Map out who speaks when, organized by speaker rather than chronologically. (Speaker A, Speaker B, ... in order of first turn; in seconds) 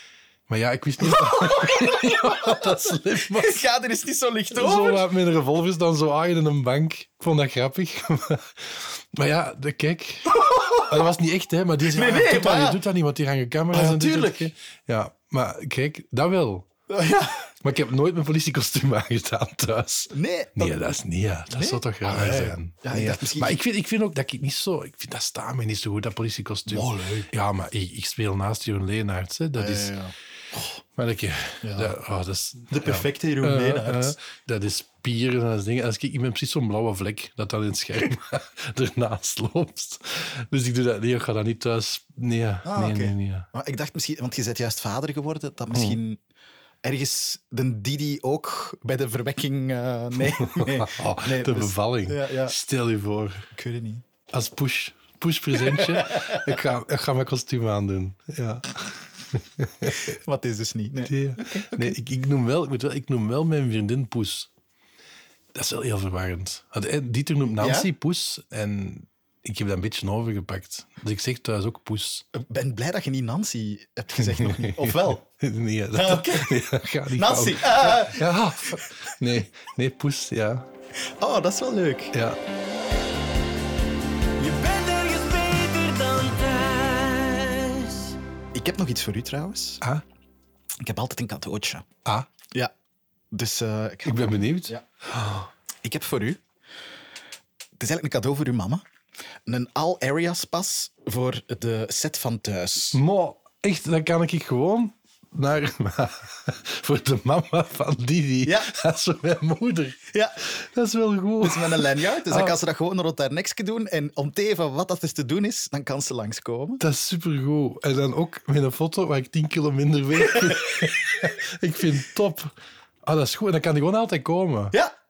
Speaker A: 0.5-3.6, 4.5-16.7, 17.6-29.9, 30.9-43.5, 45.7-46.0, 50.2-53.5, 54.3-60.1, 61.1-64.5, 65.5-72.2, 74.2-80.7, 82.1-82.4, 94.0-95.5, 102.9-112.5, 116.8-122.5, 123.0-124.7
Speaker B: 1.0-2.6, 3.3-5.1, 10.4-10.8, 11.9-12.8, 13.7-14.5, 16.9-17.5, 20.1-20.8, 21.5-23.6, 26.7-27.3, 29.6-30.6, 31.6-31.9, 32.7-34.1, 42.6-46.2, 46.8-52.5, 53.5-54.0, 55.8-56.4, 59.9-62.0, 67.6-67.9, 72.3-75.2, 75.9-78.8, 81.2-82.1, 88.5-89.8, 90.8-91.8, 93.3-94.8, 95.8-96.4, 97.8-98.8, 99.5-103.0, 110.1-110.4, 111.4-116.8
Speaker C: 84.4-88.1